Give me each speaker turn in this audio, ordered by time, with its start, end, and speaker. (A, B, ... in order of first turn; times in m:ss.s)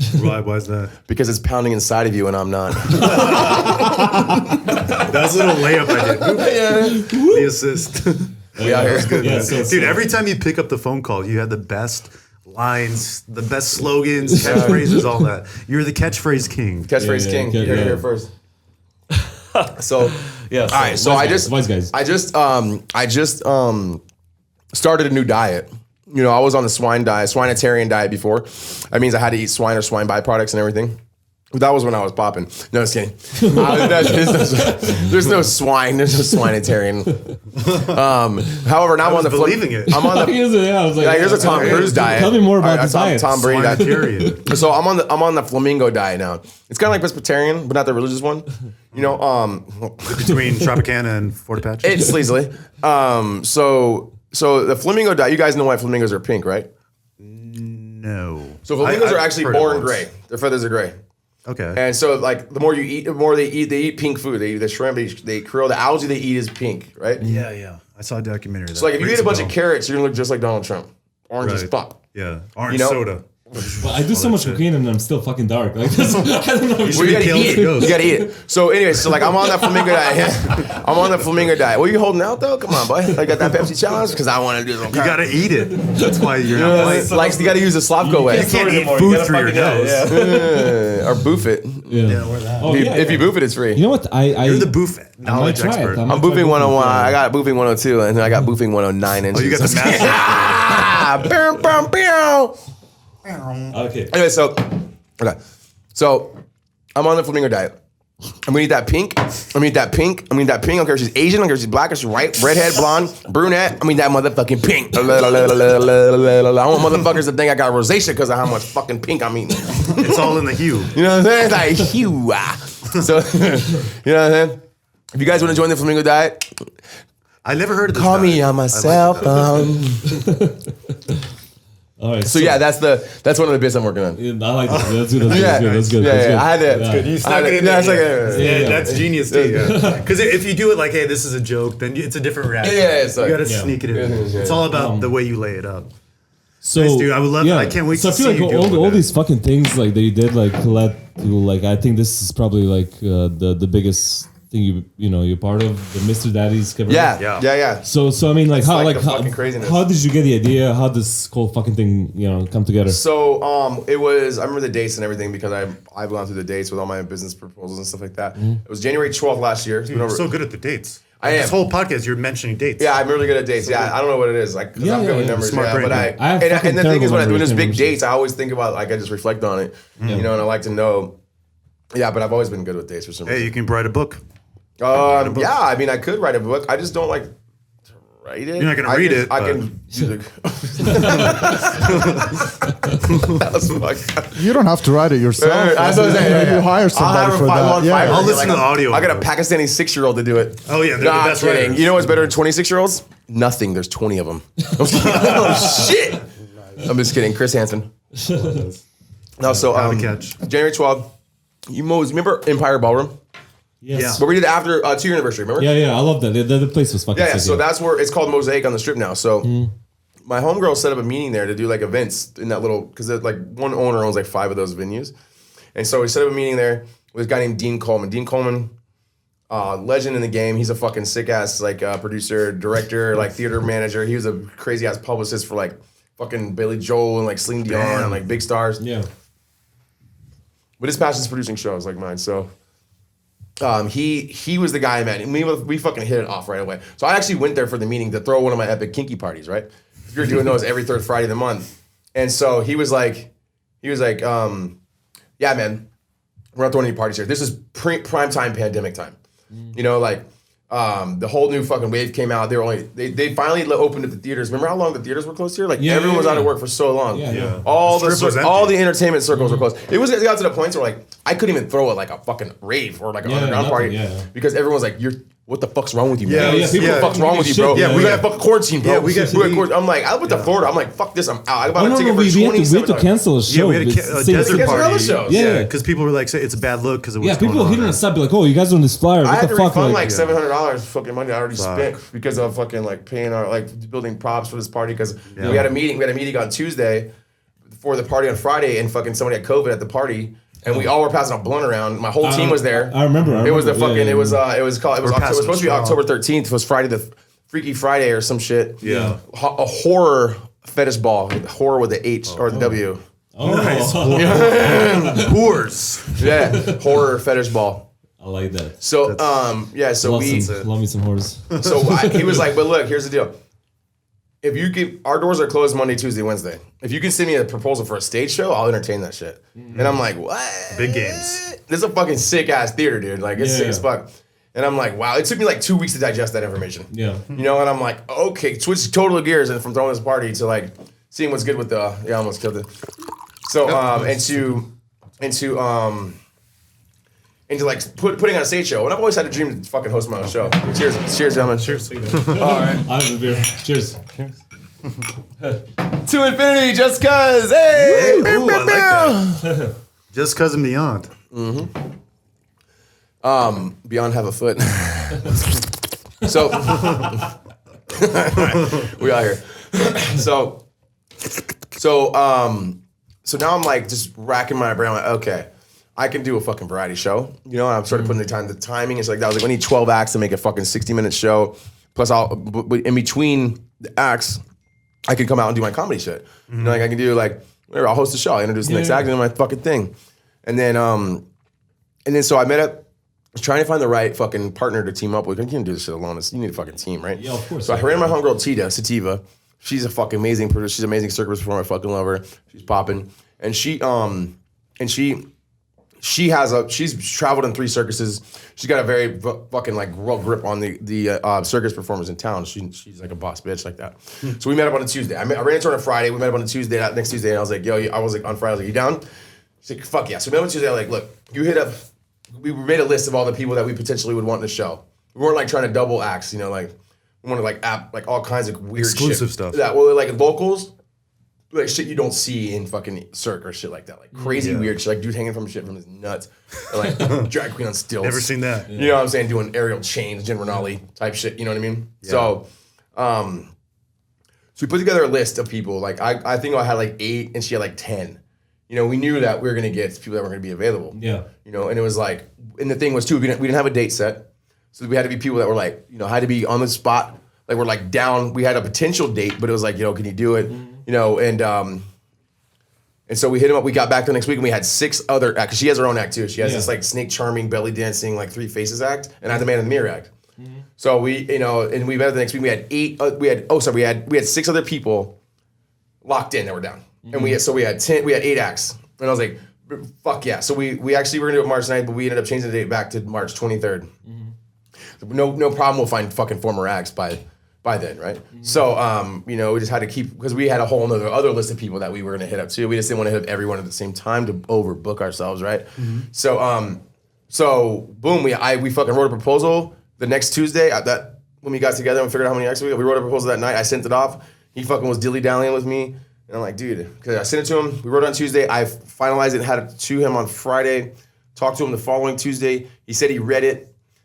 0:00.1-0:00.9 A
0:01.1-0:05.0 B
0:02.9-0:04.2 C
0:03.1-0:03.7 A
0:04.9-0:06.6 A
0:06.2-0:07.4 B
0:06.8-0:07.4 C
0:07.1-0:16.9 A
0:08.6-0:10.2 C
0:08.6-0:09.8 B
0:14.3-0:15.2 C
0:14.4-0:14.8 B
0:16.9-0:18.3 B
0:17.0-0:18.0 C
0:19.5-0:21.9 C
0:19.8-0:20.2 B
0:20.7-0:24.0 B
0:24.7-0:31.0 B
0:31.5-0:40.4 B
0:33.4-0:35.2 C
0:37.6-0:38.0 A
0:39.0-0:40.0 A
0:39.9-0:44.6 C
0:41.0-0:50.4 B
0:41.2-0:42.2 A
0:43.3-0:44.4 A
0:50.1-0:52.2 A
0:51.8-0:56.7 B
0:57.2-1:00.1 A
0:58.6-1:01.0 B
1:01.5-1:01.8 A
1:01.7-1:07.2 B
1:07.2-1:07.5 C
1:07.2-1:09.5 A
1:08.7-1:12.0 B
1:11.4-1:14.6 A
1:12.7-1:13.1 B
1:13.8-1:18.3 C
1:16.8-1:18.0 A
1:16.9-1:25.4 B
1:19.0-1:20.8 C
1:23.3-1:23.6 C
1:24.9-1:27.1 A
1:25.7-1:30.9 C
1:26.5-1:28.6 B
1:28.2-1:30.1 A
1:30.1-1:33.8 B
1:31.9-1:37.2 C
1:32.0-1:33.0 A
1:34.4-1:36.1 A
1:36.1-1:42.6 B
1:39.3-1:40.8 A
1:43.2-1:43.8 A
1:43.7-1:44.1 C
1:44.1-1:45.4 B
1:45.9-1:46.4 B
1:47.0-1:47.7 B
1:48.4-2:04.6 B
1:59.8-2:01.0 A
2:05.1-2:06.7 B
2:07.4-2:09.7 A
2:07.9-2:10.2 B
2:10.1-2:11.2 C
2:12.0-2:12.6 C
2:12.3-2:14.2 B
2:14.2-2:17.2 C
2:14.7-2:15.9 A
2:15.3-2:19.9 B
2:16.7-2:25.9 A
2:18.3-2:20.1 C
2:22.6-2:24.7 B
2:23.4-2:23.8 C
2:24.7-2:25.1 C
2:26.6-2:37.2 C
2:26.8-2:29.0 A
2:36.9-2:37.9 B
2:37.2-2:37.5 A
2:37.8-2:43.0 C
2:38.5-2:39.8 B
2:42.9-2:50.3 B
2:49.9-2:52.9 A
2:51.2-2:51.6 B
2:52.8-3:01.2 B
2:54.8-2:58.0 C
2:55.4-2:56.2 A
3:00.0-3:00.3 A
3:01.9-3:03.5 B
3:03.3-3:04.2 A
3:04.8-3:07.3 B
3:05.1-3:05.5 A
3:08.2-3:14.5 B
3:08.6-3:09.6 A
3:10.8-3:11.7 C
3:11.0-3:12.4 A
3:13.1-3:13.4 A
3:14.3-3:18.6 D
3:15.4-3:26.3 B
3:18.0-3:19.3 A
3:20.7-3:22.3 A
3:24.9-3:26.0 A
3:25.0-3:25.6 C
3:26.8-3:27.9 B
3:28.2-3:28.6 C
3:28.3-3:28.8 A
3:29.4-3:31.1 B
3:29.4-3:30.4 A
3:31.7-3:33.2 B
3:33.8-3:34.2 C
3:33.9-3:34.2 A
3:34.2-3:35.7 B
3:35.6-3:37.6 C
3:37.1-3:39.5 B
3:39.4-3:39.7 C
3:40.2-3:45.1 B
3:45.8-3:48.7 B
3:49.5-3:58.8 B
3:57.7-3:58.2 A
3:58.8-3:59.1 C
4:00.8-4:02.5 B
4:03.6-4:13.3 B
4:13.8-4:14.8 B
4:15.4-4:15.9 B
4:16.6-4:19.2 B
4:19.7-4:43.1 B
4:25.8-4:26.5 C
4:27.1-4:27.6 C
4:27.3-4:28.8 A
4:29.3-4:29.6 C
4:33.2-4:34.3 C
4:36.2-4:39.7 A
4:36.3-4:38.3 C
4:40.2-4:40.6 A
4:41.7-4:45.7 C
4:43.5-4:48.0 A
4:44.3-4:45.6 B
4:47.2-4:50.1 C
4:49.2-4:57.1 B
4:50.0-4:50.4 A
4:51.6-4:51.9 A
4:55.3-4:55.7 A
4:55.4-4:55.7 C
4:57.7-5:13.0 B
5:02.2-5:04.4 C
5:03.2-5:03.5 A
5:05.0-5:06.0 A
5:08.8-5:09.2 C
5:08.8-5:09.2 A
5:12.3-5:12.8 A
5:13.3-5:15.4 C
5:13.4-5:16.7 A
5:14.1-5:15.3 B
5:16.2-5:17.9 B
5:16.5-5:16.8 C
5:18.2-5:18.8 C
5:18.8-5:20.6 B
5:19.1-5:19.3 A
5:20.0-5:22.4 C
5:20.2-5:20.7 A
5:21.6-5:23.4 B
5:24.4-5:42.7 B
5:29.6-5:29.9 C
5:30.7-5:31.4 A
5:33.4-5:33.8 C
5:36.9-5:37.3 C
5:43.4-5:44.7 B
5:43.6-5:44.3 A
5:45.2-5:46.2 B
5:47.5-5:52.8 B
5:51.6-5:52.7 A
5:52.0-5:54.3 C
5:56.0-5:59.5 B
5:57.8-5:59.2 A
5:59.5-5:59.7 C
6:00.1-6:01.1 A
6:01.3-6:01.7 B
6:03.2-6:05.5 B
6:06.2-6:07.3 B
6:06.8-6:07.0 C
6:07.9-6:10.6 B
6:11.7-6:24.4 B
6:25.1-6:29.9 B
6:26.5-6:26.8 A
6:28.6-6:29.1 C
6:30.4-6:31.2 B
6:32.0-6:45.2 B
6:37.2-6:38.2 C
6:46.0-6:59.0 B
6:59.6-7:10.7 B
7:08.8-7:09.6 A
7:11.5-7:23.5 B
7:14.4-7:14.7 A
7:16.8-7:17.3 A
7:18.0-7:18.7 A
7:18.7-7:19.0 C
7:22.0-7:22.3 A
7:24.6-7:41.9 B
7:31.0-7:31.3 C
7:40.5-7:40.8 C
7:43.1-7:50.1 B
7:46.4-7:46.7 C
7:50.4-7:50.6 C
7:50.8-7:55.1 B
7:56.0-8:03.9 B
7:57.1-7:57.4 C
8:04.1-8:04.3 C
8:05.0-8:33.7 B
8:15.8-8:16.1 A